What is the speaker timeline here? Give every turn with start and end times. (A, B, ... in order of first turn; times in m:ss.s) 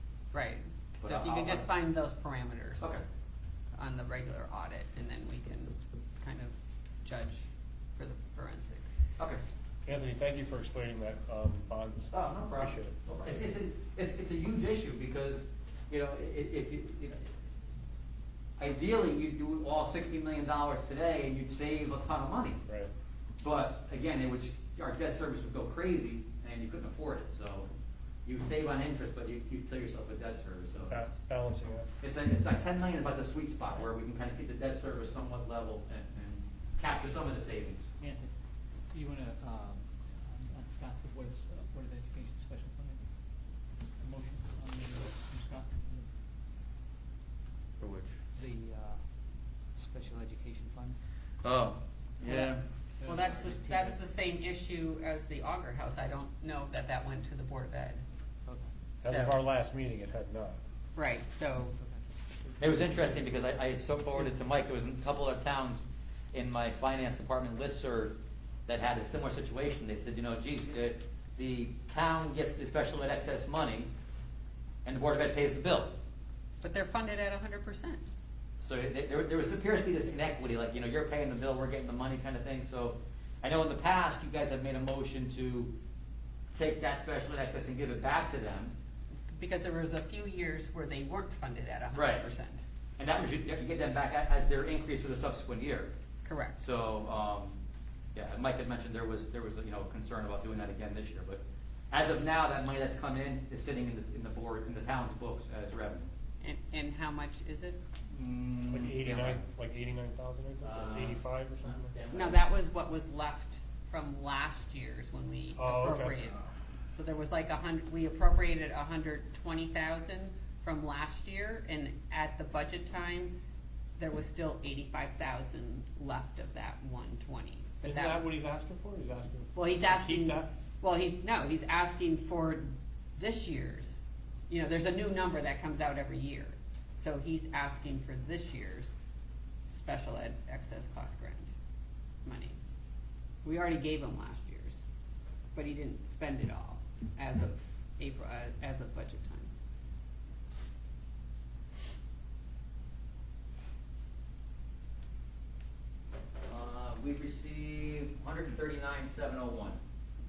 0:00.3-0:03.0 A
0:01.0-0:01.7 B
0:03.7-0:08.8 A
0:09.8-0:13.0 C
0:12.1-0:17.3 B
0:18.6-0:22.6 B
0:22.6-0:22.9 C
0:23.4-0:27.7 B
0:28.2-0:31.1 B
0:30.9-0:31.9 C
0:32.0-0:37.8 B
0:38.0-0:38.3 D
0:38.9-0:46.1 D
0:47.8-0:48.1 B
0:48.3-0:49.0 D
0:49.7-0:51.0 D
0:51.4-0:52.6 B
0:52.2-0:54.0 D
0:53.0-0:58.0 A
0:59.0-1:00.6 C
0:59.0-0:59.4 A
1:00.9-1:01.8 A
1:02.6-1:13.9 B
1:14.8-1:16.0 B
1:16.6-1:18.0 A
1:18.6-1:25.7 B
1:26.5-1:28.7 B
1:29.3-1:32.6 A
1:31.9-1:32.2 B
1:33.0-1:35.9 B
1:36.2-1:36.6 A
1:36.6-1:37.6 B
1:38.1-1:46.1 B
1:46.4-1:47.8 A
1:48.1-1:49.4 B
1:48.7-1:51.9 C
1:50.6-1:52.4 B
1:52.1-2:03.4 A
1:55.6-1:56.4 C
2:04.0-2:08.2 A
2:07.8-2:10.5 C
2:09.5-2:18.9 A
2:19.7-2:21.5 A
2:22.2-2:22.6 A
2:23.4-2:24.8 A
2:25.5-2:29.5 A
2:36.4-2:39.8 B